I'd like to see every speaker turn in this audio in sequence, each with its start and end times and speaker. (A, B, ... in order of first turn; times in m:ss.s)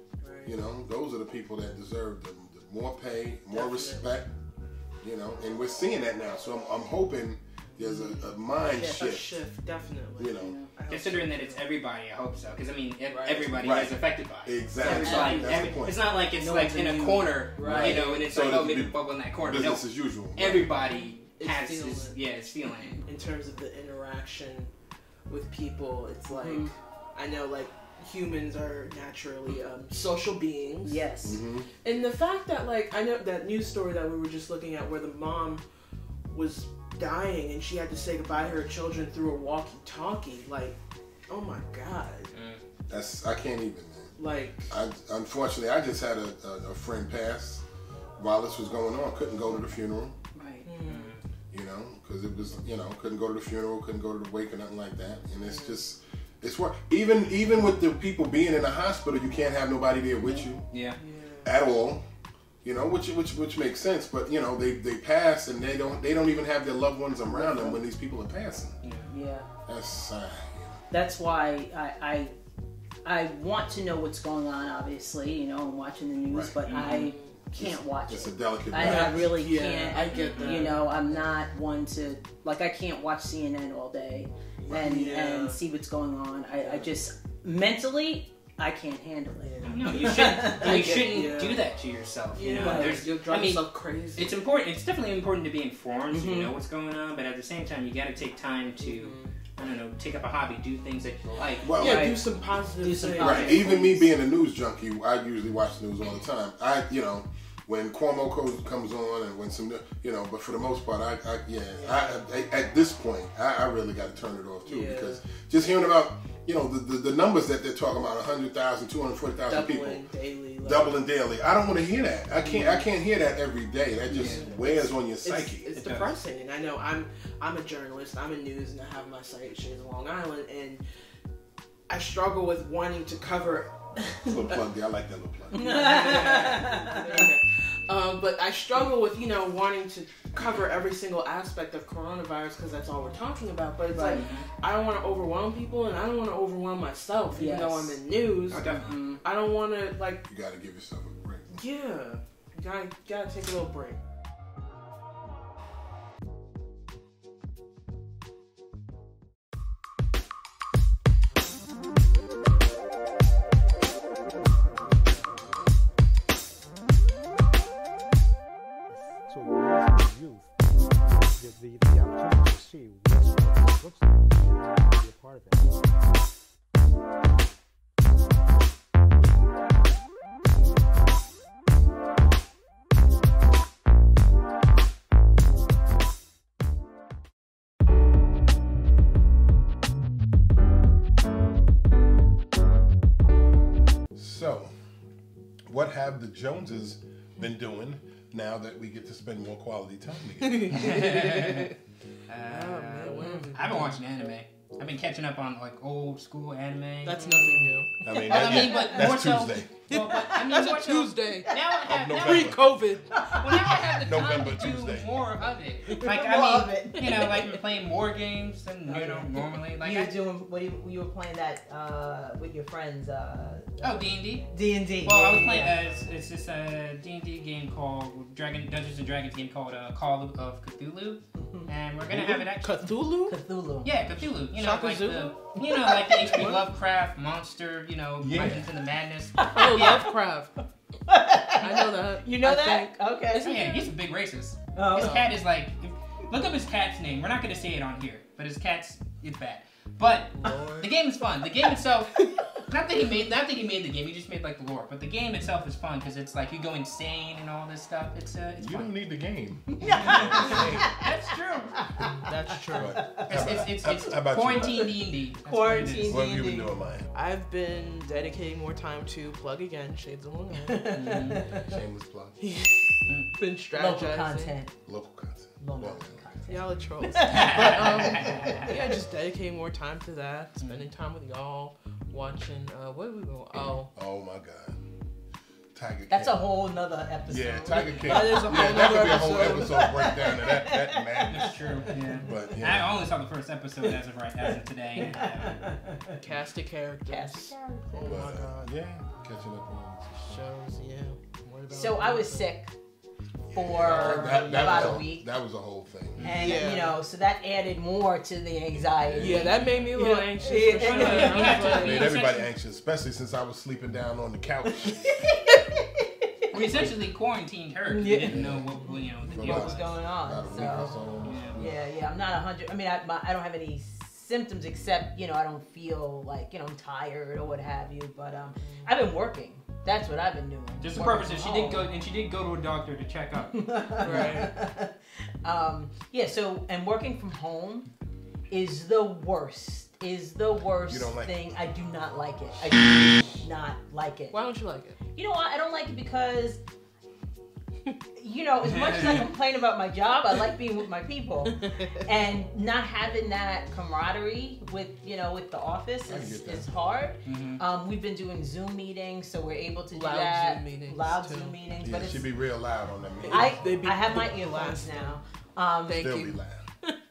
0:00.2-0:00.6 A
0:00.4-0:04.3 B
0:03.5-0:04.2 A
0:05.0-0:09.4 B
0:07.8-0:11.6 A
0:08.8-0:09.2 C
0:10.2-0:10.6 B
0:10.4-0:10.7 C
0:10.9-0:23.0 D
0:13.1-0:13.6 A
0:13.5-0:16.0 B
0:14.8-0:18.0 C
0:17.6-0:18.2 A
0:17.6-0:20.7 B
0:21.4-0:22.2 A
0:22.8-0:23.0 C
0:23.0-0:24.7 A
0:25.3-0:31.1 A
0:26.3-0:26.7 C
0:30.8-0:31.4 C
0:31.2-0:31.7 B
0:31.8-0:35.6 A
0:36.3-0:40.8 A
0:41.3-0:42.3 A
0:42.3-0:42.6 D
0:42.9-0:44.2 B
0:44.2-0:44.7 A
0:44.7-0:47.6 B
0:48.2-0:50.2 B
0:50.4-0:50.7 C
0:50.6-0:51.1 A
0:50.8-0:51.2 D
0:51.5-1:00.6 B
0:55.4-0:55.8 A
1:00.7-1:01.0 D
1:01.0-1:01.5 A
1:01.4-1:02.0 B
1:02.6-1:08.8 B
1:07.2-1:07.8 C
1:08.8-1:09.1 D
1:09.1-1:09.5 C
1:09.7-1:10.8 B
1:10.9-1:12.3 C
1:13.0-1:31.2 C
1:16.3-1:16.6 B
1:16.7-1:17.2 D
1:16.8-1:17.4 A
1:17.5-1:19.3 B
1:18.8-1:21.3 A
1:19.9-1:20.8 D
1:24.6-1:24.9 B
1:24.7-1:25.6 A
1:26.6-1:26.9 A
1:29.4-1:31.7 A
1:29.6-1:41.7 D
1:32.3-1:34.4 A
1:32.5-1:33.0 C
1:36.1-1:36.5 C
1:38.8-1:39.4 A
1:41.6-1:42.2 B
1:41.6-1:44.1 A
1:41.8-1:42.2 C
1:42.8-1:43.7 C
1:43.2-1:43.6 D
1:43.2-2:00.1 B
1:51.8-1:52.1 A
1:54.6-1:55.2 A
1:59.5-2:01.0 A
2:00.6-2:05.7 B
2:02.3-2:02.9 A
2:04.1-2:10.8 A
2:04.1-2:04.4 D
2:05.8-2:06.1 D
2:11.9-2:14.6 A
2:14.2-2:15.8 B
2:15.5-2:17.3 C
2:15.5-2:28.7 A
2:24.0-2:24.2 C
2:24.1-2:24.5 D
2:27.4-2:28.0 C
2:28.5-2:29.0 D
2:28.6-2:29.2 C
2:29.2-2:30.2 A
2:30.3-2:31.6 B
2:31.5-2:34.0 A
3:14.2-3:14.7 B
3:15.7-3:20.9 B
3:20.4-3:21.7 A
3:20.7-3:21.8 D
3:22.3-3:27.4 D
3:22.4-3:24.0 A
3:23.2-3:23.5 C
3:27.0-3:29.1 A
3:27.1-3:28.8 C
3:28.0-3:29.7 B
3:28.2-3:32.7 D
3:29.9-3:33.2 A
3:30.1-3:30.6 C
3:31.4-3:31.8 C
3:31.8-3:32.6 B
3:33.1-3:33.8 C
3:33.3-3:40.1 D
3:33.8-3:35.1 B
3:36.0-3:37.4 C
3:37.0-3:37.5 A
3:38.9-3:45.8 C
3:43.8-3:44.5 D
3:45.0-3:52.9 D
3:51.4-3:51.7 C
3:52.1-3:52.4 B
3:52.1-3:53.4 A
3:53.3-3:53.9 C
3:53.8-4:00.1 D
3:54.5-3:56.6 A
3:58.2-3:58.7 B
3:59.4-4:00.1 C
3:59.5-4:00.5 A
4:01.1-4:03.8 C
4:01.6-4:03.7 A
4:03.4-4:18.9 D
4:04.8-4:05.3 C
4:05.0-4:05.3 A
4:10.4-4:10.9 A
4:12.2-4:12.5 A
4:18.6-4:21.0 B
4:19.8-4:21.2 C
4:19.8-4:21.9 D
4:21.8-4:22.1 C
4:22.2-4:23.0 A
4:22.7-4:24.9 B
4:22.8-4:23.6 C
4:23.2-4:26.2 D
4:24.6-4:24.9 C
4:25.4-4:26.7 C
4:26.1-4:27.1 B
4:27.1-4:31.0 A
4:30.7-4:31.7 C
4:30.9-4:31.4 D
4:31.6-4:32.4 B
4:32.4-4:34.6 A
4:33.7-4:34.7 C
4:34.9-4:36.3 B
4:35.6-4:38.9 C
4:36.5-4:43.9 A
4:37.2-4:38.7 D
4:40.6-4:40.8 D
4:43.5-4:44.8 B
4:45.7-4:46.4 B
4:46.1-4:52.4 C
4:47.3-4:53.0 B
4:48.0-4:50.0 A
4:51.3-4:55.8 D
4:53.9-4:56.2 C
4:56.1-4:58.7 A
4:57.1-4:58.3 C
4:58.0-5:00.4 B
5:00.2-5:02.5 A
5:01.7-5:02.7 C
5:03.5-5:06.3 B
5:03.5-5:05.3 C
5:03.9-5:05.0 A
5:06.2-5:06.6 D
5:06.2-5:12.0 C
5:06.3-5:07.0 A
5:08.7-5:09.7 B
5:09.2-5:12.1 A
5:10.8-5:12.5 D
5:11.6-5:15.3 B
5:14.7-5:16.2 C
5:16.5-5:20.0 D
5:16.6-5:17.0 B
5:17.9-5:21.0 C
5:18.3-5:18.7 B
5:19.3-5:21.8 B
5:21.2-5:21.6 D
5:21.6-5:31.9 C
5:28.6-5:28.9 A
5:30.8-5:33.6 D
5:33.4-5:37.9 C
5:34.0-5:34.5 A
5:34.1-5:34.3 D
5:38.5-5:44.4 C
5:40.9-5:41.4 B
5:44.3-5:45.0 A
5:45.1-5:46.6 C
5:48.2-6:02.3 C
5:48.6-5:49.3 D
5:51.6-5:51.9 A
5:56.1-5:56.7 B
5:57.2-5:57.6 D
5:59.9-6:01.6 A
6:01.8-6:03.6 B
6:03.2-6:05.2 A
6:03.3-6:06.2 C
6:05.9-6:07.0 A
6:06.0-6:06.6 B